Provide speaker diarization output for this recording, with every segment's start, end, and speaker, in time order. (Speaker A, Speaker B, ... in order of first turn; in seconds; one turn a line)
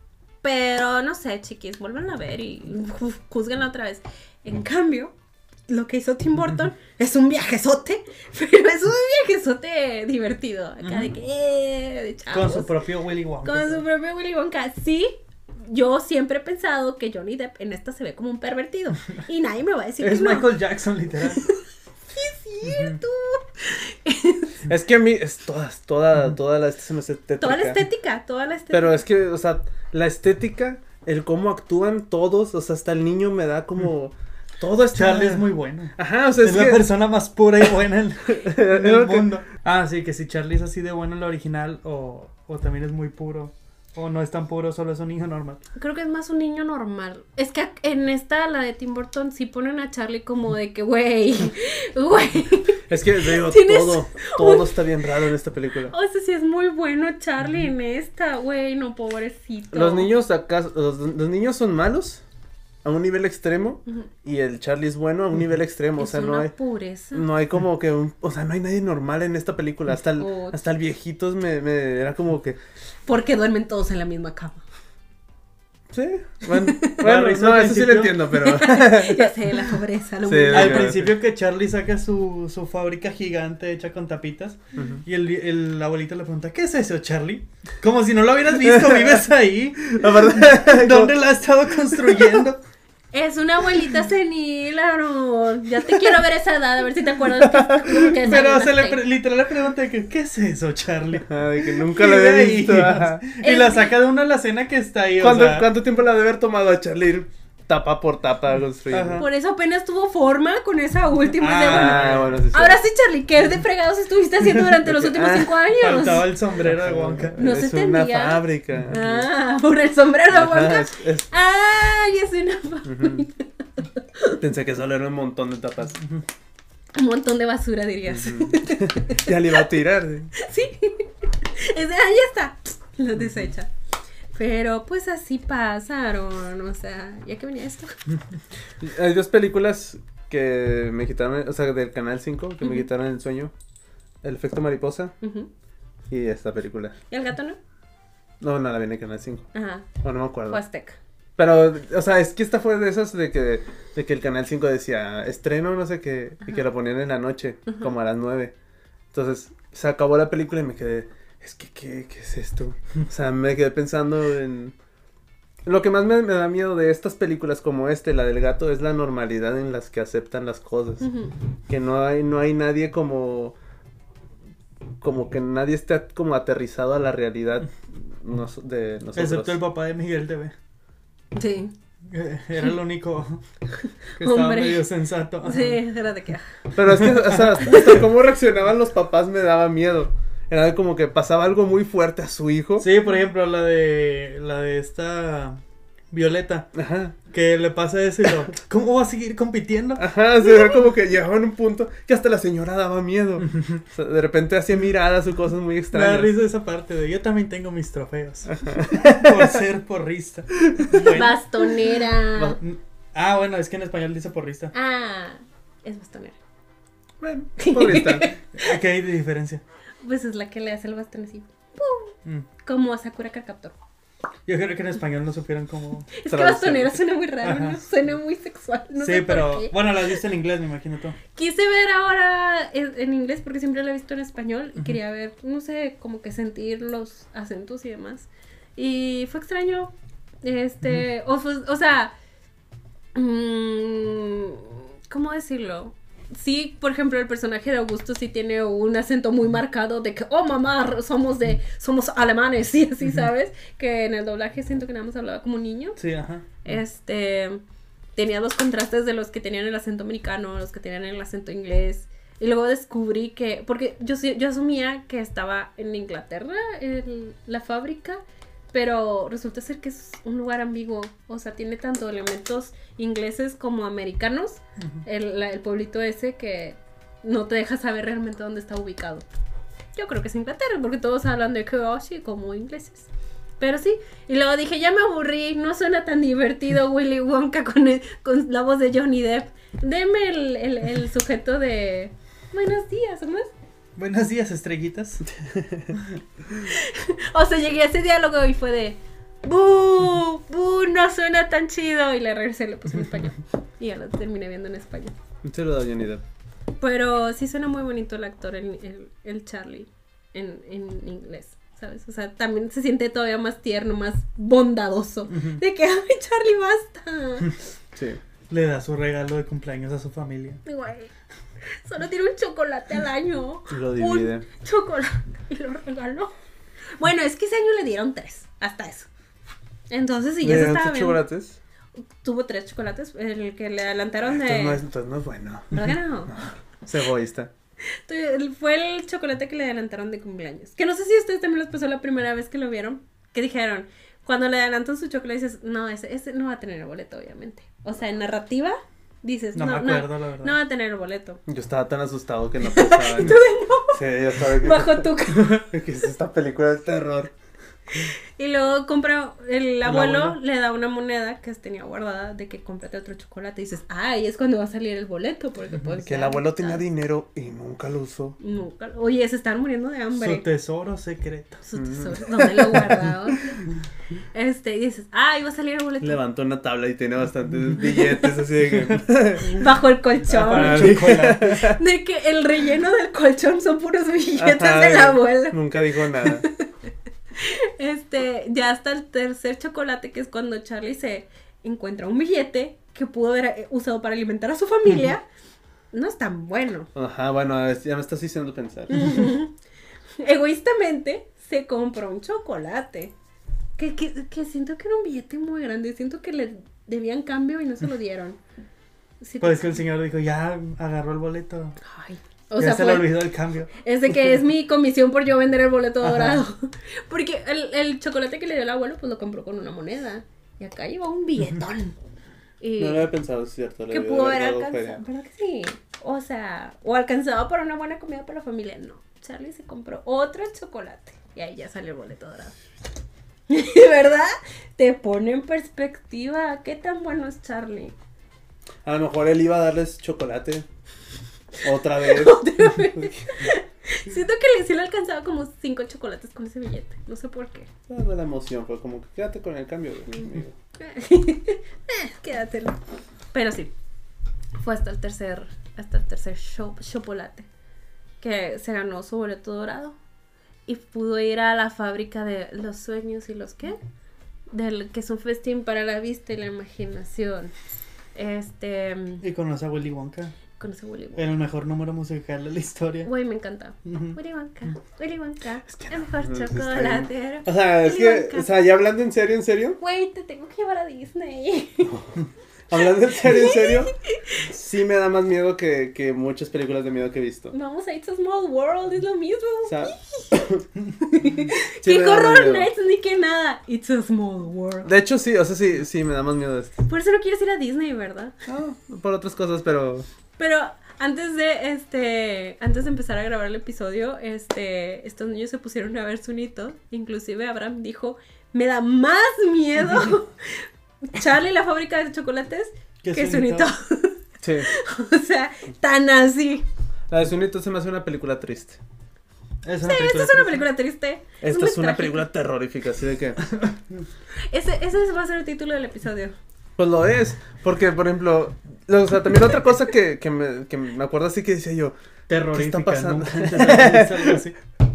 Speaker A: 0.4-5.1
Speaker A: 5.7-12.7
Speaker B: 10.8-11.1
Speaker B: 12.3-13.8
Speaker A: 13.4-20.5
Speaker B: 20.0-21.4
Speaker A: 21.3-21.6
Speaker A: 22.1-24.6
Speaker B: 22.6-23.0
Speaker C: 24.6-27.8
Speaker A: 27.4-29.0
Speaker C: 28.7-36.9
Speaker B: 34.9-45.6
Speaker C: 38.3-39.3
Speaker A: 45.8-55.0
Speaker C: 52.9-55.9
Speaker A: 55.9-60.1
Speaker C: 59.7-62.2
Speaker C: 62.8-66.5
Speaker A: 66.0-67.2
Speaker C: 67.1-72.6
Speaker A: 70.2-70.6
Speaker A: 73.0-74.6
Speaker C: 75.9-79.3
Speaker A: 76.5-77.0
Speaker B: 77.0-78.3
Speaker A: 78.3-80.9
Speaker C: 80.2-81.1
Speaker B: 80.5-92.6
Speaker C: 84.8-85.0
Speaker C: 88.7-89.2
Speaker C: 89.9-91.2
Speaker C: 91.9-92.4
Speaker A: 93.1-99.0
Speaker C: 97.4-98.0
Speaker B: 98.0-105.7
Speaker C: 101.3-103.2
Speaker A: 103.4-103.9
Speaker C: 105.2-109.2
Speaker B: 108.9-109.2
Speaker A: 109.2-116.3
Speaker B: 111.4-112.4
Speaker C: 111.6-112.8
Speaker C: 114.5-115.8
Speaker B: 115.8-117.4
Speaker C: 116.6-119.3
Speaker A: 117.4-124.4
Speaker C: 120.3-121.3
Speaker C: 122.8-123.2
Speaker C: 124.4-126.0
Speaker A: 126.9-129.6
Speaker C: 128.1-130.3
Speaker A: 130.3-133.7
Speaker A: 134.3-137.9
Speaker C: 138.8-143.5
Speaker C: 144.2-145.1
Speaker A: 145.2-145.5
Speaker C: 146.1-146.9
Speaker A: 147.1-147.6
Speaker C: 148.4-149.5
Speaker A: 149.5-149.9
Speaker C: 150.0-150.6
Speaker A: 150.5-151.0
Speaker C: 151.4-158.5
Speaker C: 159.1-164.7
Speaker C: 165.6-171.1
Speaker A: 171.0-171.3
Speaker C: 171.7-173.6
Speaker C: 175.0-179.6
Speaker B: 179.1-180.5
Speaker A: 181.3-181.7
Speaker B: 182.1-183.4
Speaker B: 184.2-185.8
Speaker A: 184.2-184.9
Speaker A: 185.4-186.5
Speaker C: 186.7-192.9
Speaker B: 187.0-187.5
Speaker B: 192.8-195.6
Speaker B: 196.1-196.7
Speaker C: 196.7-197.2
Speaker B: 197.3-200.1
Speaker C: 199.9-206.3
Speaker B: 203.4-203.8
Speaker B: 205.9-211.7
Speaker C: 208.5-209.6
Speaker C: 210.7-211.1
Speaker A: 210.9-212.6
Speaker B: 212.6-214.7
Speaker A: 214.7-216.4
Speaker C: 217.2-218.3
Speaker A: 217.6-218.4
Speaker B: 218.5-219.6
Speaker A: 220.0-223.8
Speaker B: 224.5-226.1
Speaker A: 226.1-229.9
Speaker C: 226.3-227.0
Speaker B: 227.4-227.8
Speaker B: 229.0-231.2
Speaker A: 231.3-239.9
Speaker A: 240.4-242.1
Speaker A: 243.1-256.0
Speaker B: 256.0-256.7
Speaker A: 256.6-257.6
Speaker A: 258.1-279.2
Speaker A: 279.9-293.5
Speaker B: 294.0-295.2
Speaker C: 295.4-295.9
Speaker A: 296.5-305.1
Speaker C: 305.4-306.2
Speaker A: 306.8-317.5
Speaker B: 315.3-315.6
Speaker C: 317.9-318.2
Speaker B: 318.5-320.6
Speaker A: 320.6-321.1
Speaker A: 321.8-326.3
Speaker C: 323.7-324.4
Speaker A: 327.0-329.1
Speaker A: 329.9-331.2
Speaker C: 330.4-331.6
Speaker A: 332.2-334.8
Speaker C: 334.3-337.5
Speaker A: 335.7-336.3
Speaker A: 338.1-351.4
Speaker B: 349.5-350.6
Speaker C: 351.4-353.4
Speaker A: 352.6-355.6
Speaker C: 353.9-357.3
Speaker A: 358.0-366.8
Speaker B: 359.8-360.4
Speaker C: 366.0-368.4
Speaker A: 368.4-370.4
Speaker B: 370.1-371.6
Speaker A: 371.6-373.6
Speaker C: 371.8-372.9
Speaker A: 374.3-376.2
Speaker C: 376.0-379.7
Speaker A: 379.4-386.7
Speaker B: 380.3-381.6
Speaker C: 380.4-381.8
Speaker C: 384.4-386.4
Speaker A: 387.3-395.2
Speaker A: 395.9-396.9
Speaker C: 396.9-399.3
Speaker A: 398.9-399.5
Speaker A: 400.2-403.1
Speaker A: 403.8-408.4
Speaker A: 409.2-409.8
Speaker B: 409.4-411.8
Speaker A: 411.8-413.2
Speaker B: 412.6-413.7
Speaker A: 413.8-421.9
Speaker B: 416.0-416.4
Speaker A: 422.6-423.1
Speaker C: 422.8-425.0
Speaker A: 423.9-432.5
Speaker A: 433.5-437.9
Speaker C: 438.8-440.6
Speaker C: 441.6-443.4
Speaker A: 442.0-447.7
Speaker C: 447.9-450.5
Speaker A: 450.8-452.8
Speaker A: 453.3-453.7
Speaker A: 454.6-457.5
Speaker A: 458.2-459.9
Speaker A: 460.7-463.8
Speaker A: 464.5-467.5
Speaker A: 468.1-469.2
Speaker B: 469.2-470.3
Speaker A: 470.6-471.2
Speaker B: 471.1-473.1
Speaker A: 473.0-478.5
Speaker B: 473.8-474.2
Speaker C: 475.7-479.8
Speaker A: 479.8-482.0
Speaker C: 481.8-482.1
Speaker C: 482.7-483.9
Speaker A: 483.1-484.4
Speaker C: 484.4-487.5
Speaker A: 487.5-490.3
Speaker C: 489.6-490.6
Speaker A: 491.0-494.9
Speaker C: 491.8-492.7
Speaker C: 494.8-496.8
Speaker A: 496.9-498.3
Speaker C: 498.5-500.1
Speaker A: 500.4-516.6
Speaker B: 513.0-513.7
Speaker C: 514.4-514.7
Speaker C: 517.1-518.8
Speaker B: 519.6-520.6
Speaker A: 519.8-522.3
Speaker C: 521.4-523.4
Speaker A: 524.5-526.3
Speaker C: 526.8-531.9
Speaker B: 532.3-534.5
Speaker C: 532.5-534.4